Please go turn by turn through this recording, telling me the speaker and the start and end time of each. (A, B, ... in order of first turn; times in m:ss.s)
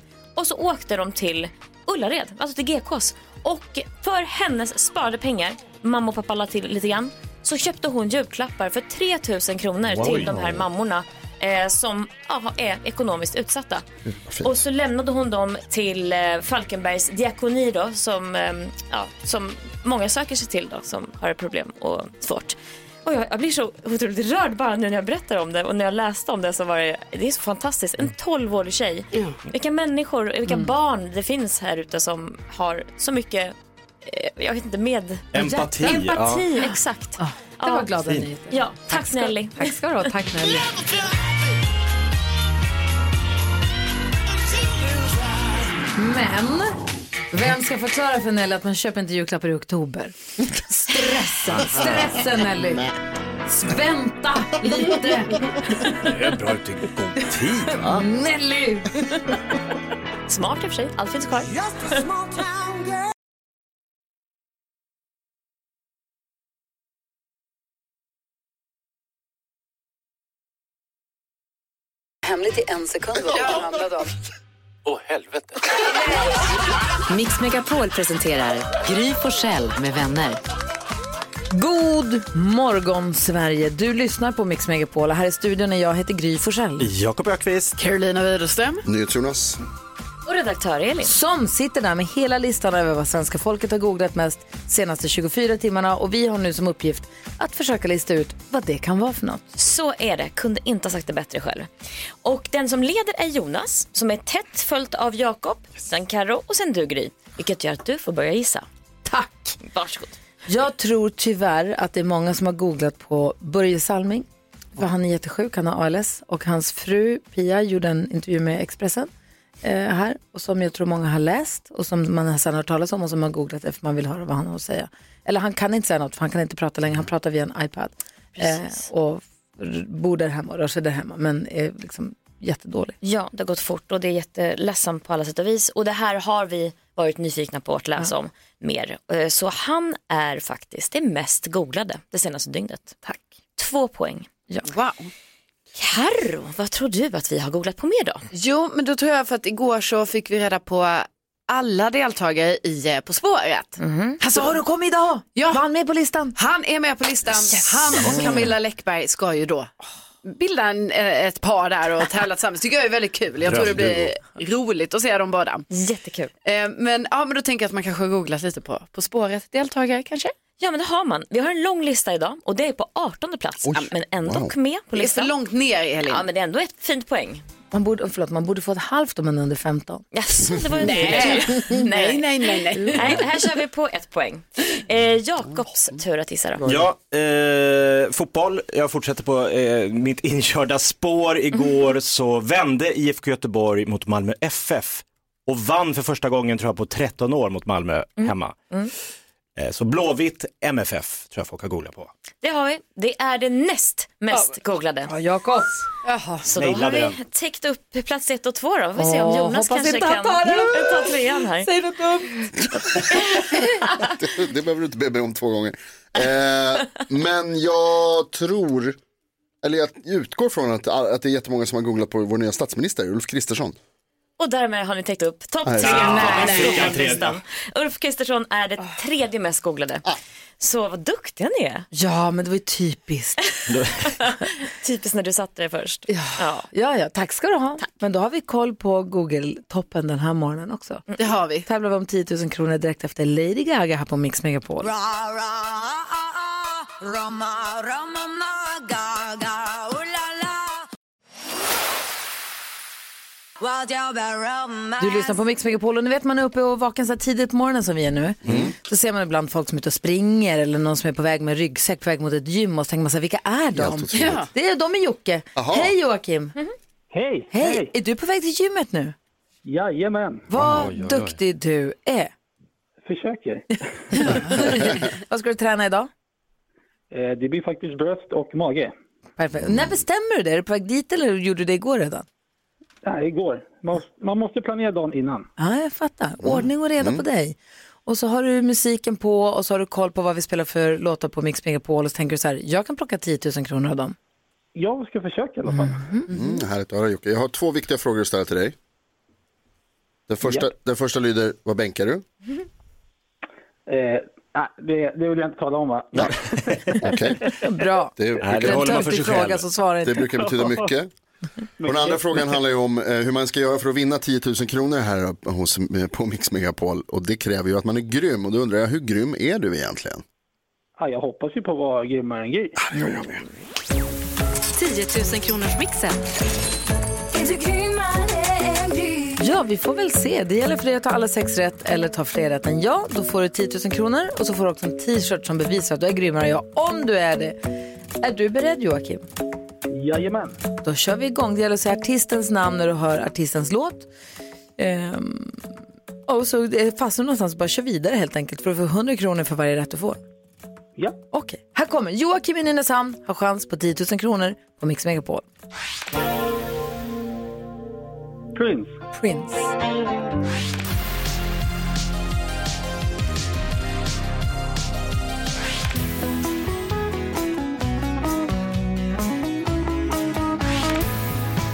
0:00.4-0:13.8 A
0:09.9-0:10.6 B
0:14.0-0:14.6 C
0:14.4-0:37.9 A
0:35.3-0:36.4 B
0:35.4-0:36.0 D
0:36.6-0:40.8 D
0:38.5-0:39.8 A
0:45.9-0:46.8 D
0:47.3-0:52.9 D
0:53.5-0:56.2 D
0:56.0-0:58.0 B
0:57.7-0:59.4 D
1:00.3-1:02.0 A
1:12.2-1:14.1 D
1:17.1-1:20.4 E
1:21.5-1:26.9 D
1:26.8-1:27.7 B
1:27.8-1:28.8 F
1:28.8-1:29.6 C
1:30.2-1:31.1 A
1:31.0-1:39.4 D
1:39.6-1:41.7 A
1:42.2-1:48.6 A
1:49.0-1:49.6 D
1:49.6-1:50.1 A
1:50.5-1:59.1 D
1:59.6-2:13.0 D
2:08.4-2:08.8 A
2:13.0-2:23.0 A
2:23.6-2:24.3 A
2:24.6-2:25.1 F
2:25.8-2:28.2 A
2:28.3-2:33.8 F
2:33.8-2:34.2 A
2:34.2-2:36.4 D
2:36.4-2:39.7 F
2:40.2-2:45.6 F
2:43.4-2:44.0 B
2:43.5-2:44.1 C
2:45.7-2:46.3 A
2:46.4-2:50.3 F
2:50.6-2:55.3 A
2:53.6-2:54.5 C
2:54.9-2:56.2 F
2:56.0-2:57.4 A
2:57.7-3:00.0 D
3:00.1-3:06.8 A
3:00.8-3:03.2 F
3:06.6-3:18.6 B
3:18.2-3:18.9 A
3:19.6-3:22.1 B
3:22.4-3:25.1 A
3:25.0-3:25.8 D
3:26.1-3:26.4 F
3:26.5-3:31.7 A
3:26.5-3:27.2 B
3:29.0-3:33.6 D
3:34.0-3:39.0 C
3:39.6-3:43.8 C
3:44.4-3:51.9 A
3:45.6-3:46.4 C
3:45.8-3:47.4 B
3:45.8-3:47.0 F
3:51.9-3:53.5 D
3:53.7-3:53.9 B
3:54.0-3:56.7 A
3:56.1-4:01.0 D
4:01.2-4:01.6 F
4:01.6-4:04.9 D
4:04.8-4:10.8 E
4:13.6-4:15.4 E
4:15.0-4:26.5 D
4:18.4-4:18.7 C
4:23.7-4:24.5 C
4:24.1-4:24.5 F
4:25.6-4:25.9 C
4:27.1-4:27.9 G
4:27.5-4:29.1 D
4:29.6-4:30.4 G
4:30.5-4:32.3 D
4:30.6-4:31.1 C
4:33.0-4:34.6 G
4:34.1-4:36.1 D
4:37.1-4:38.9 G
4:39.4-4:42.2 D
4:39.6-4:39.9 C
4:43.0-4:45.5 G
4:45.6-4:54.2 D
4:46.4-4:47.2 C
4:54.7-4:56.1 G
4:55.7-4:56.3 D
4:56.3-4:58.7 C
5:00.3-5:02.2 C
5:03.9-5:06.4 G
5:07.0-5:07.4 C
5:07.6-5:10.3 D
5:08.2-5:09.3 C
5:08.4-5:09.6 B
5:10.0-5:11.1 C
5:10.4-5:10.8 G
5:11.8-5:12.4 G
5:11.8-5:20.2 C
5:21.0-5:22.8 G
5:22.9-5:23.4 C
5:24.7-5:26.2 E
5:27.3-5:29.4 E
5:29.4-5:37.6 D
5:38.2-5:39.2 D
5:39.9-5:40.6 G
5:40.8-5:44.1 D
5:44.8-5:45.6 D
5:46.3-5:50.2 D
5:51.3-5:55.4 D
5:58.5-5:58.9 G
5:59.1-5:59.7 D